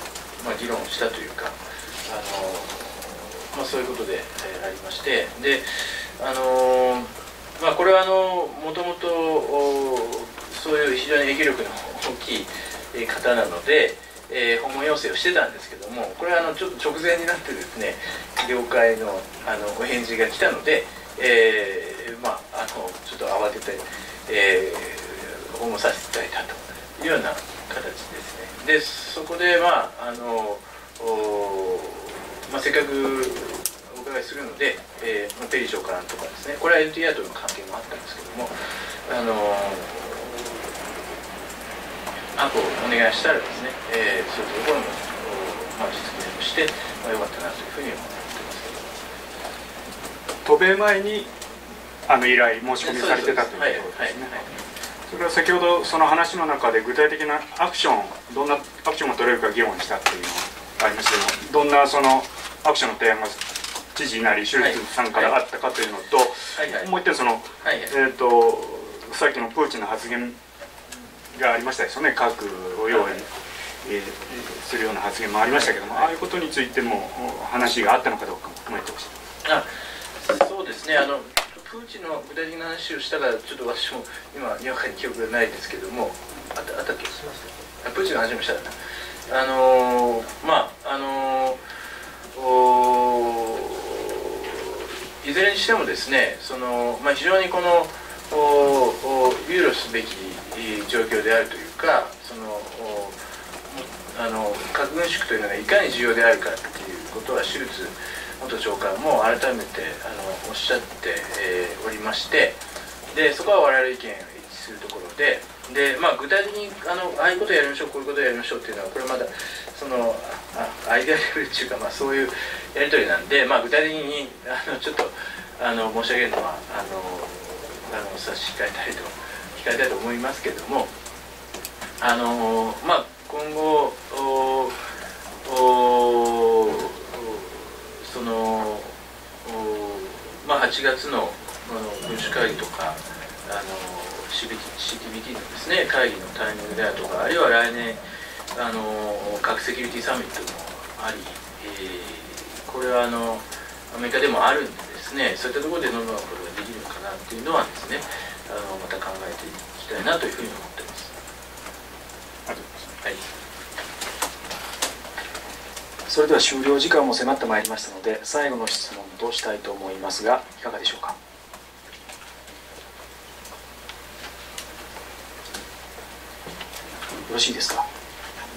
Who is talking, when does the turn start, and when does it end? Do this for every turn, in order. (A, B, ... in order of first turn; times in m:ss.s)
0:00.4-0:38.5 A
0:39.0-0:41.0 A
0:42.4-0:49.0 A
0:50.4-0:51.3 B
0:52.1-0:54.4 B
0:52.8-0:54.6 A
0:55.1-1:03.4 B
1:04.0-1:10.4 B
1:04.5-1:05.4 A
1:06.5-1:06.9 A
1:07.6-1:08.0 A
1:11.3-1:13.1 B
1:12.8-1:13.3 A
1:13.8-1:19.2 B
1:15.4-1:16.1 A
1:19.4-1:19.7 A
1:20.2-1:28.8 A
1:29.3-1:31.6 A
1:32.3-1:52.6 A
1:53.1-2:10.9 A
2:12.0-2:14.8 A
2:15.4-2:28.0 A
2:28.5-2:41.1 A
2:42.5-2:42.9 B
2:46.1-2:51.1 C
2:57.3-2:57.8 C